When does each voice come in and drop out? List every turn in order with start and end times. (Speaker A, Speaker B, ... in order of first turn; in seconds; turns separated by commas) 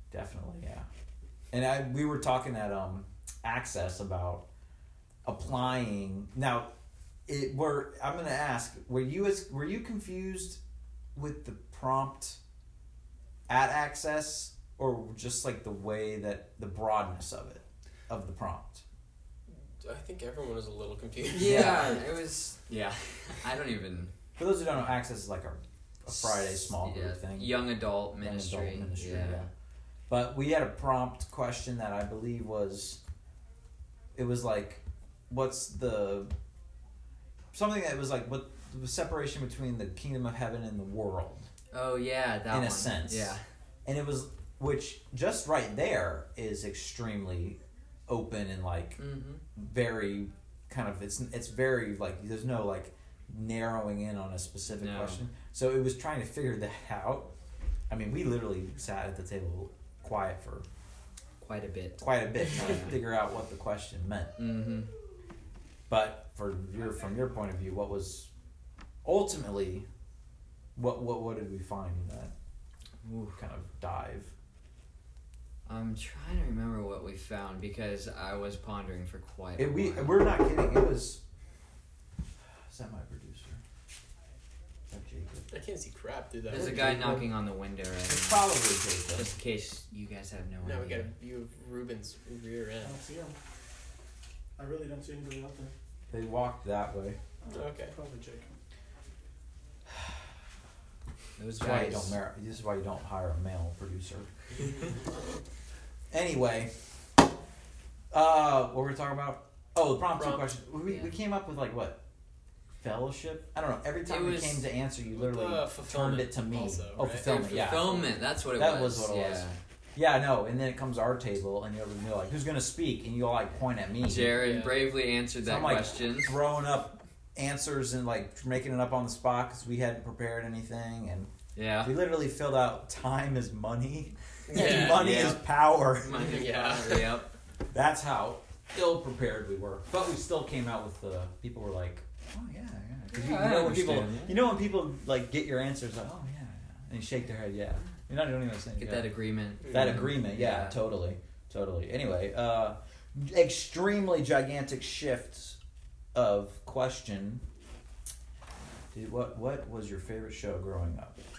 Speaker A: 0.1-0.9, Speaker A: 1.5-4.5, Speaker A: 5.2-6.7, Speaker A: 7.3-10.6, Speaker A: 11.1-12.4, Speaker A: 13.5-18.8, Speaker B: 19.5-22.0, Speaker C: 21.3-24.1, Speaker A: 21.4-21.9, Speaker A: 24.4-29.5, Speaker C: 26.1-29.5, Speaker A: 30.1-33.0, Speaker A: 34.1-36.3, Speaker A: 37.5-41.5, Speaker C: 41.7-43.4, Speaker A: 42.5-57.3, Speaker C: 49.0-49.4, Speaker C: 54.7-55.2, Speaker A: 57.9-60.6, Speaker C: 61.4-63.0, Speaker A: 62.0-64.4, Speaker C: 64.4-64.9, Speaker A: 65.9-68.3, Speaker A: 69.0-69.9, Speaker A: 70.8-72.3, Speaker C: 73.0-73.4, Speaker A: 73.3-74.3, Speaker C: 75.7-80.2, Speaker A: 79.6-81.2, Speaker A: 82.7-83.6, Speaker A: 84.9-85.5, Speaker B: 85.5-86.7, Speaker A: 86.5-87.3, Speaker C: 86.5-88.5, Speaker A: 88.0-89.3, Speaker C: 89.1-91.1, Speaker B: 90.6-93.0, Speaker D: 92.8-93.4, Speaker D: 94.6-95.7, Speaker A: 96.1-97.2, Speaker D: 97.5-98.6, Speaker B: 97.5-97.9, Speaker C: 101.4-102.2, Speaker A: 101.6-104.3, Speaker A: 106.1-106.7, Speaker A: 108.1-112.0, Speaker B: 110.2-110.5, Speaker A: 112.8-124.4, Speaker C: 114.0-114.7, Speaker B: 115.1-118.1, Speaker C: 117.2-119.6, Speaker C: 124.0-126.4, Speaker B: 124.4-124.9, Speaker A: 125.4-131.3, Speaker C: 131.5-131.9, Speaker A: 131.8-136.4, Speaker B: 134.5-135.2, Speaker C: 134.5-137.3, Speaker B: 136.1-137.2, Speaker A: 137.7-155.6, Speaker C: 143.1-144.4, Speaker C: 148.8-150.8, Speaker B: 149.6-150.0, Speaker A: 156.1-157.4, Speaker A: 158.9-161.2